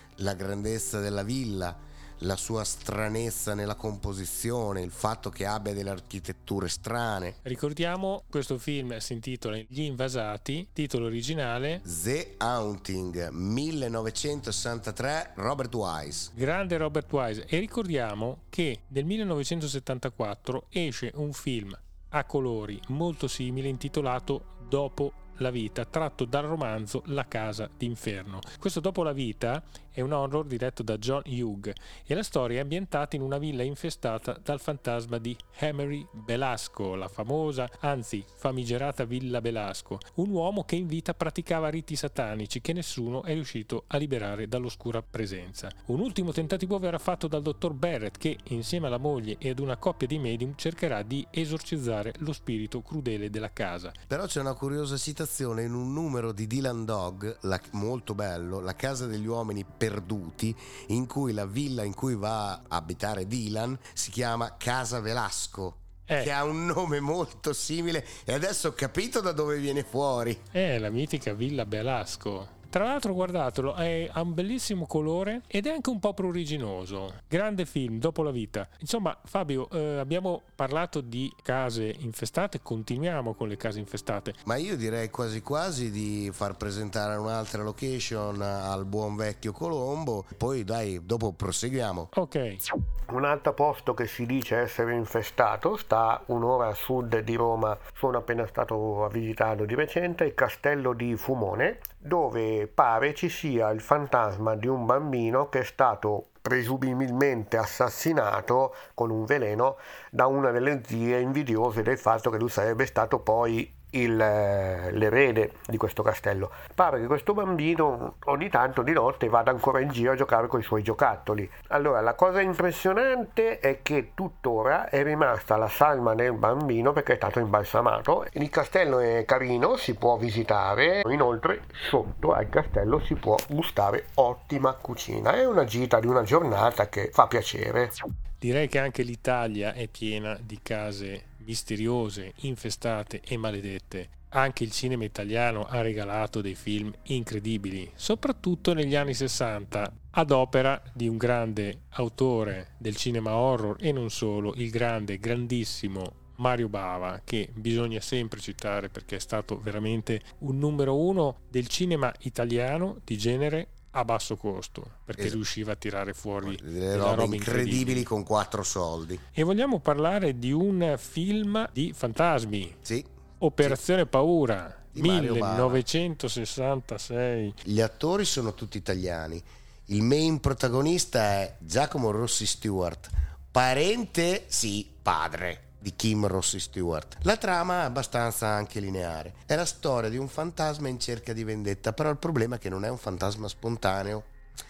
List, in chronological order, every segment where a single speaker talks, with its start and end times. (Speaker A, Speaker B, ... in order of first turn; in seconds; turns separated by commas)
Speaker A: 0.2-7.4, Speaker B: 7.5-11.8, Speaker A: 11.8-16.3, Speaker B: 16.3-54.0, Speaker A: 54.1-70.5, Speaker B: 70.5-84.4, Speaker A: 84.5-92.1, Speaker B: 92.1-92.6, Speaker C: 93.1-138.0, Speaker B: 138.4-168.1, Speaker A: 166.4-169.2, Speaker B: 169.4-172.8, Speaker A: 172.8-173.1, Speaker B: 173.4-177.6, Speaker A: 174.9-175.8, Speaker A: 177.6-194.3